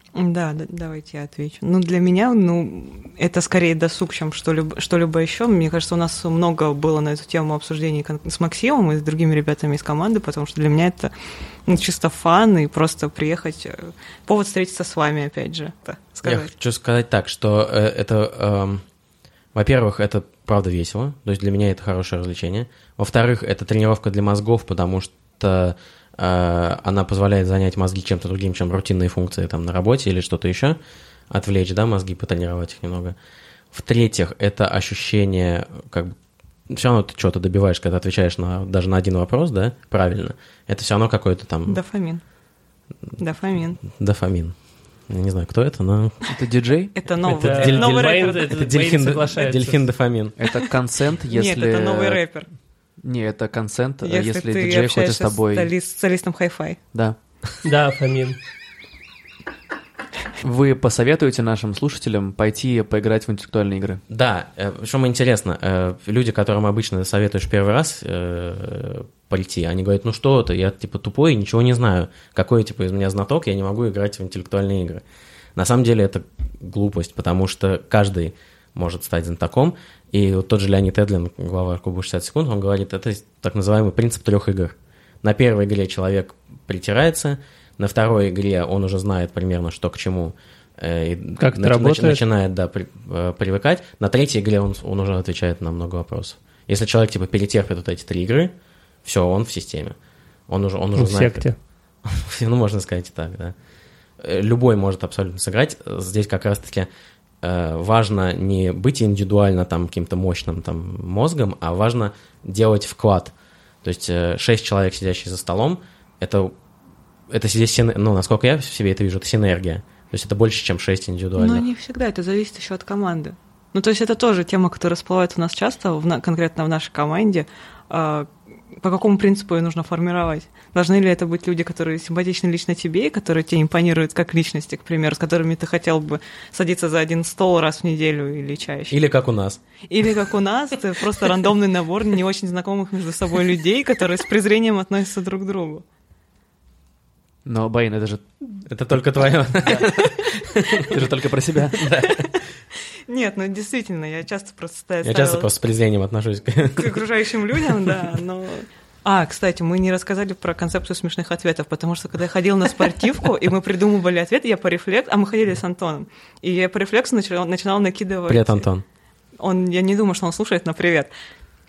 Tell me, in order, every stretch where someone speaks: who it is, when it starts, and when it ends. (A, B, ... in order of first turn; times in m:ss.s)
0:00.1-0:11.1 A
0:11.6-0:16.5 A
0:16.2-0:18.8 B
0:19.5-0:30.8 B
0:31.3-0:33.2 B
0:33.7-0:36.1 B
0:36.7-0:41.8 B
0:41.7-0:42.2 A
0:43.2-0:43.8 A
0:43.8-0:44.5 B
0:45.1-0:46.2 B
0:46.3-0:46.9 C
0:46.9-0:48.6 A
0:47.3-0:50.4 B
0:47.4-0:49.8 D
0:50.4-0:52.2 C
0:51.3-0:52.5 A
0:53.0-0:55.7 C
0:54.0-0:56.8 A
0:57.6-0:58.4 D
1:00.4-1:04.0 C
1:04.1-1:15.0 B
1:15.5-1:38.5 B
1:31.4-1:32.2 D
1:39.0-1:40.0 B
1:40.5-1:41.4 B
1:41.0-1:41.6 D
1:42.0-1:43.5 B
1:44.2-1:46.9 B
1:47.4-1:56.6 B
1:57.3-2:01.7 B
2:01.4-2:19.0 A
2:18.9-2:19.6 B
2:19.9-2:25.8 A
2:27.4-2:28.2 C
2:28.6-2:31.1 B
2:30.8-2:31.9 C
2:31.7-2:32.4 B
2:33.1-2:35.5 A
2:35.0-2:37.0 B
2:36.7-2:48.7 A
2:48.3-2:48.8 B
2:49.4-2:51.1 A